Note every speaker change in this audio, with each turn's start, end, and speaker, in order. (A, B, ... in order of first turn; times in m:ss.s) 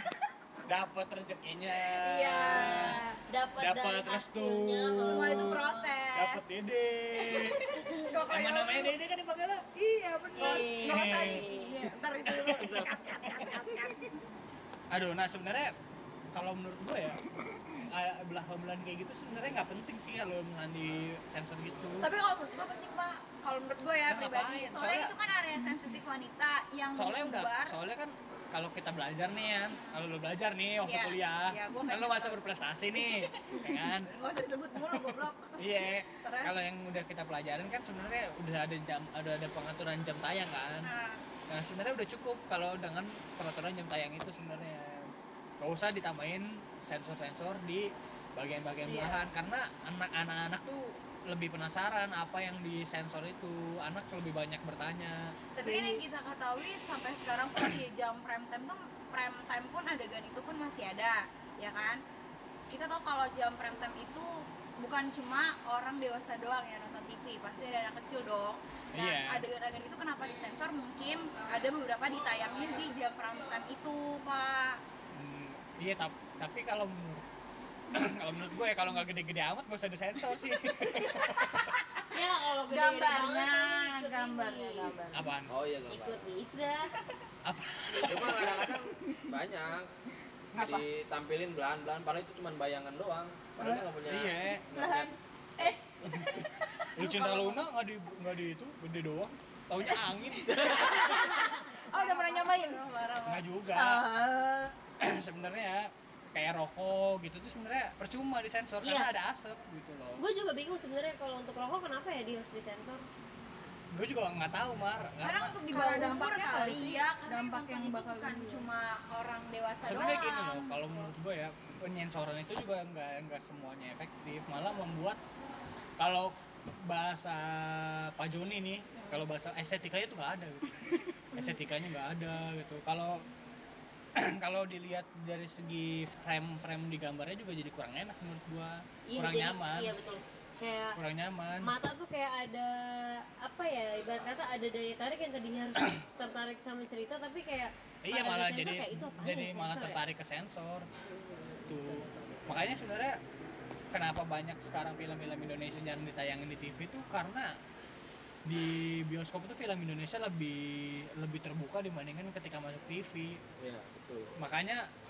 0:00.7-0:03.0 A
0:02.0-0:03.1 B
0:02.2-0:03.0 C
0:02.6-0:06.0 D
0:03.6-0:05.5 A
0:05.0-0:06.4 C
0:06.1-0:07.6 A
0:07.4-0:09.0 C
0:07.7-0:08.1 D
0:08.3-0:09.6 A
0:09.8-0:14.1 C
0:10.4-0:11.8 D
0:10.8-0:11.4 A
0:12.2-0:13.5 A
0:14.9-0:15.7 A
0:16.3-0:22.1 A
0:22.0-0:27.8 C
0:24.1-0:25.2 A
0:27.0-0:34.1 A
0:30.8-0:32.4 C
0:33.1-0:36.5 C
0:35.6-0:40.9 A
0:40.8-0:41.2 C
0:41.5-0:55.3 A
0:48.9-0:49.2 B
0:55.6-1:02.0 C
0:55.6-0:56.0 B
1:02.7-1:14.8 C
1:08.9-1:09.5 A
1:15.1-1:17.2 A
1:17.9-1:21.7 A
1:22.1-1:25.0 D
1:22.7-1:25.2 B
1:25.1-1:25.5 A
1:25.5-1:26.2 E
1:25.9-1:26.9 D
1:27.4-1:28.6 A
1:27.9-1:28.4 D
1:28.0-1:29.9 E
1:30.5-1:30.8 A
1:30.6-1:35.1 E
1:33.6-1:34.6 A
1:34.7-1:37.6 B
1:37.0-1:41.5 A
1:41.1-1:43.0 B
1:41.9-1:43.4 C
1:43.3-1:44.0 A
1:43.7-1:44.7 B
1:45.0-1:50.2 A
1:48.8-1:49.1 D
1:50.2-1:53.1 D
1:53.9-1:55.6 A
1:55.2-2:01.0 C
1:55.7-1:58.7 B
1:59.8-2:05.2 A
2:06.0-2:13.2 A
2:09.0-2:09.2 C
2:14.2-2:19.9 A
2:19.1-2:21.0 D
2:21.0-2:21.7 A
2:21.6-2:30.0 D
2:28.0-2:30.9 A
2:31.0-2:31.7 D
2:31.7-2:33.2 A
2:33.9-2:37.6 A
2:38.5-2:43.4 A
2:43.6-2:44.3 E
2:44.4-2:44.9 A